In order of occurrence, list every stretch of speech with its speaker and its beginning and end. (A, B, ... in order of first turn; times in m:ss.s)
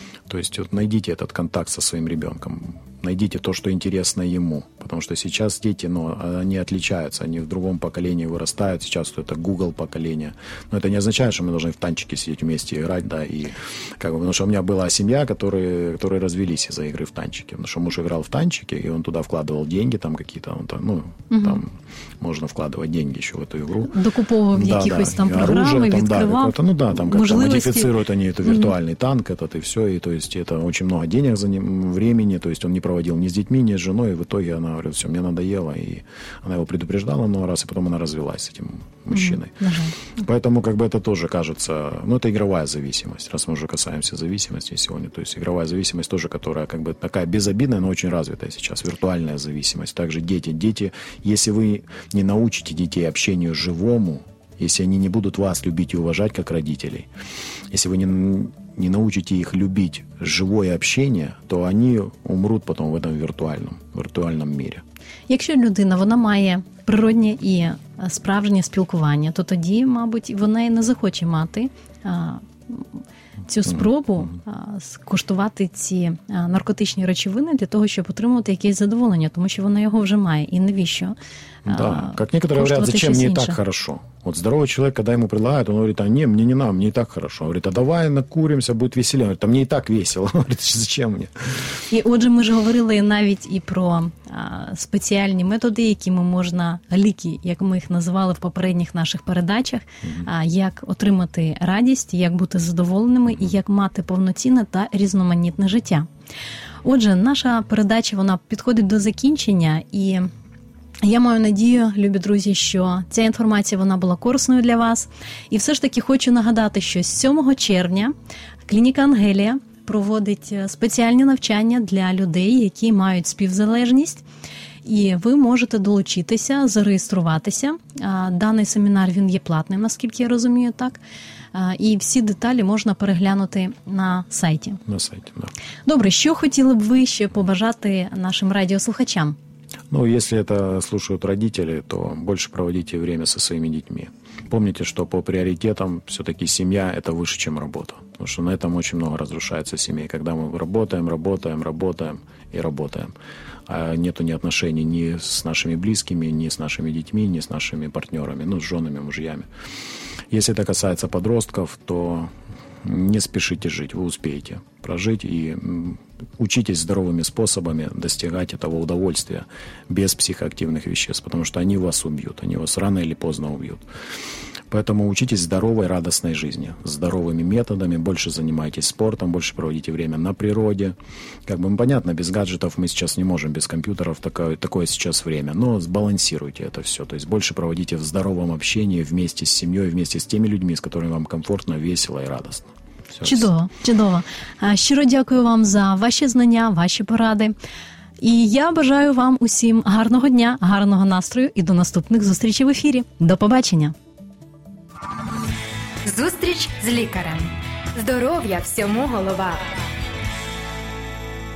0:00.3-0:23.9 A
0:21.3-0:21.6 B
0:23.9-0:28.0 B
0:24.5-0:57.1 A
0:39.1-0:40.0 B
0:57.7-1:04.8 A
1:05.3-1:12.9 B
1:13.5-1:21.2 B
1:21.7-1:31.8 A
1:21.7-1:23.6 B
1:31.9-1:46.1 B
1:46.8-1:50.3 B
1:51.0-1:58.1 B
1:58.7-2:04.2 B
2:04.8-2:11.0 B
2:11.5-2:14.8 B
2:14.9-2:15.5 A
2:15.9-2:19.4 B
2:19.9-2:33.1 A
2:33.7-2:39.5 A
2:40.3-2:42.3 A
2:42.8-2:53.8 A
2:54.7-3:01.0 A
3:01.5-3:13.5 A
3:13.2-3:17.5 B
3:18.2-3:24.0 B
3:26.0-3:29.7 C